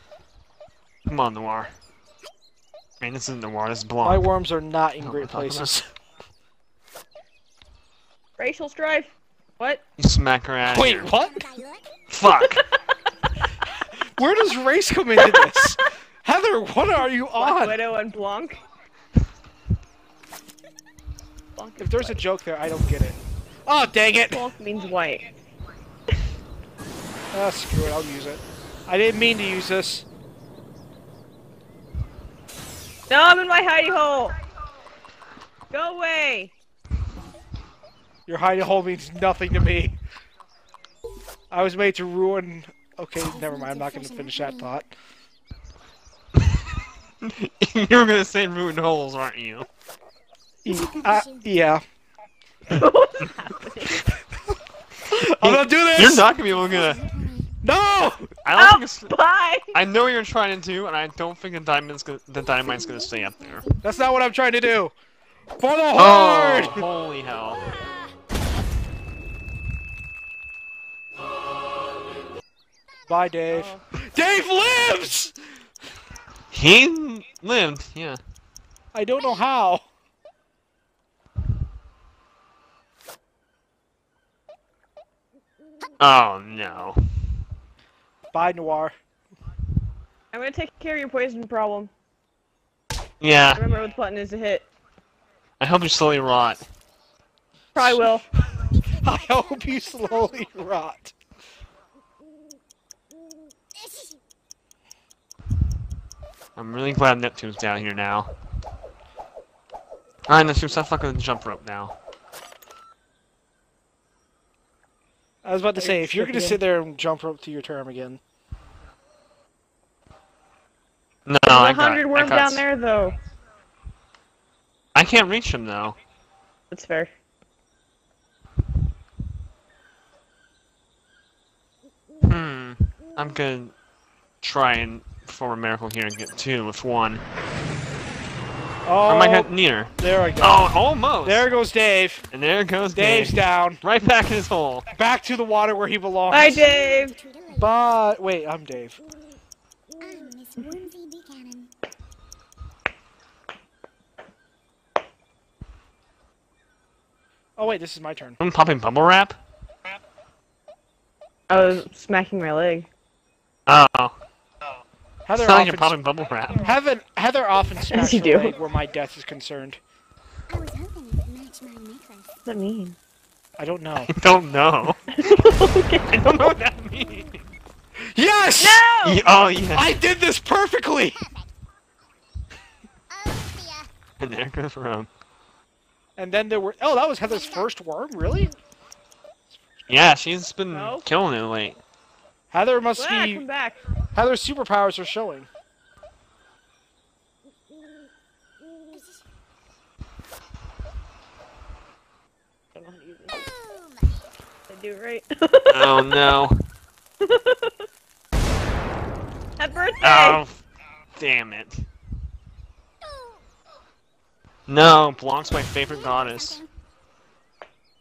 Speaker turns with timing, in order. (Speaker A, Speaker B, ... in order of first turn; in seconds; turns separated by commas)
Speaker A: 1.1-1.7, Speaker A: 3.0-4.2, Speaker B: 4.0-5.9, Speaker A: 5.0-5.8, Speaker C: 8.4-9.8, Speaker A: 10.0-11.1, Speaker B: 10.7-11.5, Speaker D: 11.1-12.0, Speaker A: 12.1-12.6, Speaker B: 14.0-17.8, Speaker C: 15.2-15.7, Speaker C: 17.4-18.6, Speaker C: 21.6-22.2, Speaker B: 21.8-24.5, Speaker C: 24.3-25.3, Speaker B: 27.3-30.1, Speaker C: 33.1-34.3, Speaker C: 35.7-36.5, Speaker B: 38.3-40.0, Speaker B: 41.5-44.9, Speaker D: 43.2-44.7, Speaker A: 47.2-49.6, Speaker B: 50.6-51.8, Speaker D: 50.7-51.5, Speaker C: 52.7-54.0, Speaker A: 55.0-57.0, Speaker B: 55.4-56.3, Speaker D: 56.4-57.5, Speaker B: 57.6-58.3, Speaker A: 58.4-59.1, Speaker C: 58.5-59.7, Speaker A: 59.7-63.6, Speaker D: 62.6-64.1, Speaker B: 63.8-64.9, Speaker B: 65.6-66.9, Speaker A: 66.0-67.6, Speaker B: 73.1-75.3, Speaker C: 73.5-73.8, Speaker A: 76.5-78.2, Speaker B: 78.9-79.8, Speaker A: 86.0-87.0, Speaker B: 88.3-88.9, Speaker C: 90.3-91.9, Speaker A: 93.2-93.6, Speaker C: 93.5-94.7, Speaker A: 95.6-96.6, Speaker C: 97.7-98.2, Speaker D: 98.7-100.5, Speaker B: 99.0-101.1, Speaker D: 103.7-104.2, Speaker A: 106.5-108.3, Speaker A: 110.3-111.9, Speaker B: 115.4-118.2, Speaker C: 115.8-116.6, Speaker A: 121.2-122.6, Speaker C: 121.5-123.2, Speaker A: 124.9-126.0, Speaker C: 126.7-127.1, Speaker A: 132.2-133.7, Speaker A: 134.4-137.2, Speaker B: 138.8-140.7, Speaker A: 139.1-141.4, Speaker B: 141.2-142.2, Speaker A: 142.3-144.9, Speaker B: 142.9-143.8, Speaker B: 144.9-146.7, Speaker C: 146.3-147.1, Speaker D: 146.3-147.7, Speaker B: 147.5-149.0, Speaker D: 150.0-151.7, Speaker C: 150.6-150.8, Speaker B: 157.6-158.4, Speaker A: 158.4-159.4, Speaker C: 161.5-162.9, Speaker A: 163.7-164.1, Speaker B: 165.2-165.9, Speaker A: 165.3-166.7, Speaker B: 166.5-169.8, Speaker C: 167.9-168.5, Speaker D: 170.5-172.3, Speaker C: 172.4-172.9, Speaker B: 173.6-174.1, Speaker A: 174.1-175.0, Speaker C: 175.1-176.6, Speaker A: 176.1-177.5, Speaker D: 176.9-177.3, Speaker B: 178.0-178.8, Speaker C: 178.6-179.2, Speaker A: 179.0-179.9, Speaker B: 179.7-181.2, Speaker D: 181.1-181.5, Speaker D: 183.1-183.9, Speaker A: 184.2-185.1, Speaker B: 186.2-188.5, Speaker D: 187.3-187.7, Speaker A: 189.9-191.8, Speaker C: 190.7-191.0, Speaker B: 192.5-193.4, Speaker C: 193.0-193.8, Speaker B: 194.1-195.5, Speaker D: 198.9-199.2, Speaker C: 202.7-203.4, Speaker D: 203.3-204.2, Speaker C: 204.7-206.2, Speaker A: 205.7-206.6, Speaker C: 207.2-207.8, Speaker C: 209.6-210.4, Speaker A: 210.0-210.6, Speaker A: 211.2-211.8, Speaker D: 213.0-213.4, Speaker A: 214.7-216.6, Speaker D: 215.7-216.7